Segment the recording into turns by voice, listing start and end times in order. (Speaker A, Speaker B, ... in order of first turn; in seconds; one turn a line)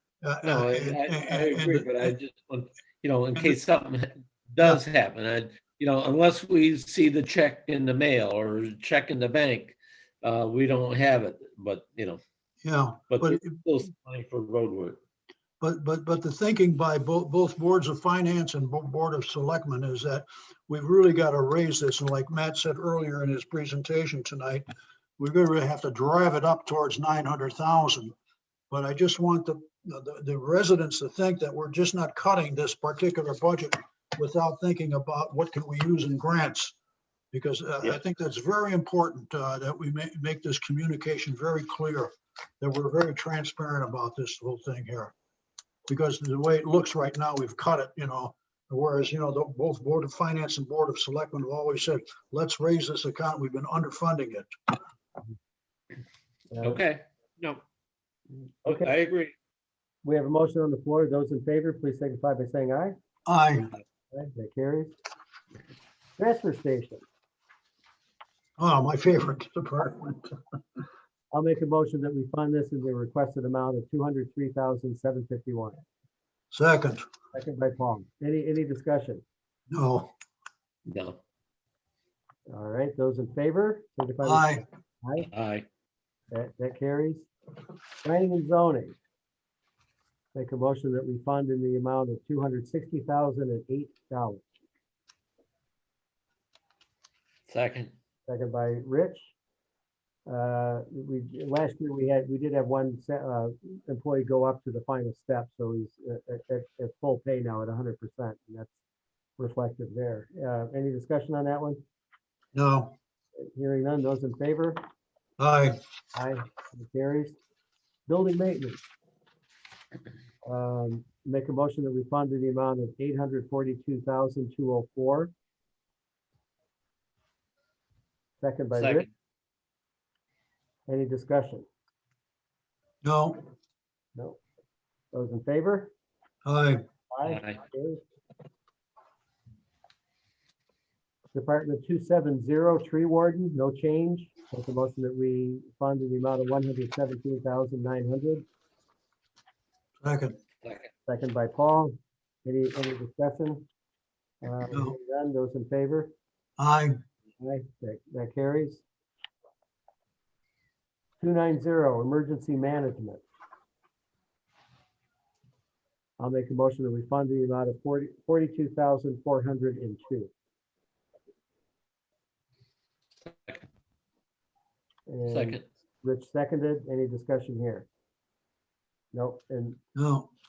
Speaker A: 0.2-2.1
Speaker B: 0.4-12.2
Speaker A: 12.6-13.6
Speaker B: 13.1-15.0
Speaker A: 15.6-24.7
Speaker A: 25.2-28.1
Speaker A: 28.7-36.7
Speaker A: 37.3-45.1
Speaker A: 45.9-54.5
Speaker C: 56.5-56.8
Speaker B: 56.6-57.6
Speaker B: 58.6-59.3
Speaker C: 58.6-59.0
Speaker C: 60.0-63.0
Speaker A: 63.2-63.7
Speaker C: 64.1-65.0
Speaker C: 66.2-67.0
Speaker A: 68.6-70.4
Speaker C: 71.3-75.8
Speaker A: 76.5-77.1
Speaker C: 77.3-79.2
Speaker A: 79.7-80.1
Speaker B: 80.9-81.2
Speaker C: 82.5-85.3
Speaker A: 84.2-84.6
Speaker B: 85.2-85.6
Speaker C: 86.3-87.3
Speaker C: 88.0-89.0
Speaker C: 90.3-94.4
Speaker B: 97.5-97.9
Speaker C: 98.3-99.3
Speaker C: 100.2-108.7
Speaker C: 109.4-111.8
Speaker A: 112.5-112.9
Speaker C: 113.4-114.8
Speaker A: 115.4-115.8
Speaker C: 116.1-117.4
Speaker C: 118.1-118.8
Speaker C: 120.4-125.3
Speaker C: 128.4-129.1
Speaker B: 128.8-129.0
Speaker C: 130.9-131.7
Speaker A: 133.0-133.5
Speaker C: 134.1-134.4
Speaker C: 135.1-135.9
Speaker A: 136.4-136.8
Speaker C: 137.1-138.0
Speaker B: 137.2-137.6
Speaker C: 141.3-148.4
Speaker A: 150.0-150.4
Speaker C: 151.1-153.7
Speaker C: 154.4-156.1
Speaker A: 156.6-157.0
Speaker C: 157.4-158.8
Speaker C: 161.2-163.2
Speaker C: 166.2-170.3
Speaker B: 173.2-173.6
Speaker C: 175.1-177.9
Speaker B: 175.3-175.6
Speaker C: 179.1-179.8
Speaker A: 179.9-180.3